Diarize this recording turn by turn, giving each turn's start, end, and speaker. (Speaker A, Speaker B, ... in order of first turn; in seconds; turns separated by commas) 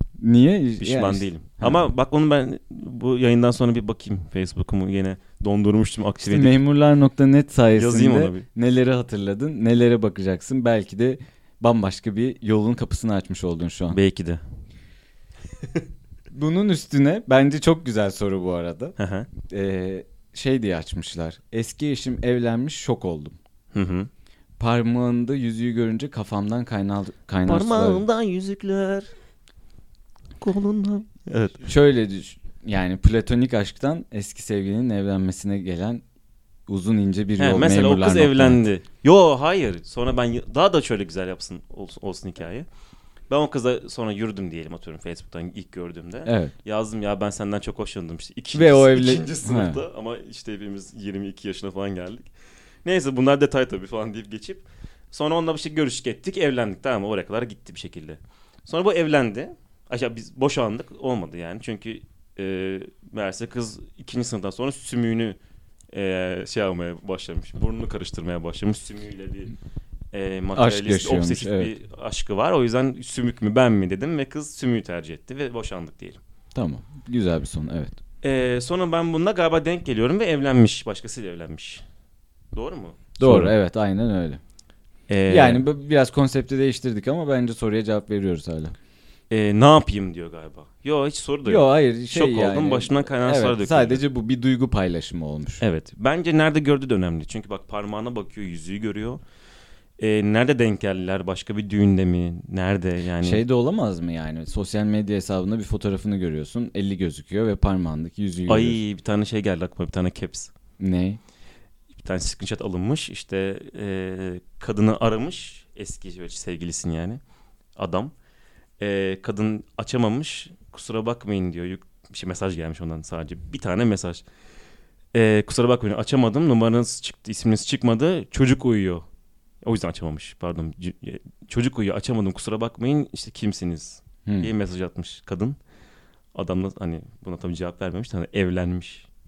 Speaker A: 0.2-1.9, Speaker B: 0.8-6.6, Speaker A: 6.2-14.0, Speaker B: 7.8-8.4, Speaker B: 13.9-14.4, Speaker A: 16.3-23.4, Speaker B: 19.0-19.3, Speaker B: 23.7-24.1, Speaker A: 24.6-28.0, Speaker B: 27.5-29.1, Speaker B: 30.4-31.6, Speaker A: 31.6-36.0, Speaker A: 36.7-38.6, Speaker B: 37.4-42.7, Speaker B: 43.3-52.3, Speaker A: 46.3-46.5, Speaker A: 48.5-49.8, Speaker B: 52.9-65.4, Speaker B: 65.9-69.5, Speaker B: 70.1-76.2, Speaker A: 70.5-71.7, Speaker A: 76.5-78.0, Speaker B: 78.2-81.8, Speaker B: 82.5-83.5, Speaker A: 83.2-84.4, Speaker B: 85.1-85.6, Speaker A: 85.3-88.8, Speaker B: 89.3-94.0, Speaker A: 91.5-95.6, Speaker B: 95.6-99.2, Speaker B: 100.0-103.4, Speaker A: 103.2-108.8, Speaker B: 108.5-110.5, Speaker A: 110.8-111.2, Speaker B: 111.9-117.2, Speaker B: 117.8-118.1, Speaker B: 118.8-124.2, Speaker B: 125.1-129.1, Speaker B: 129.6-135.6, Speaker A: 134.3-134.5, Speaker B: 136.3-139.1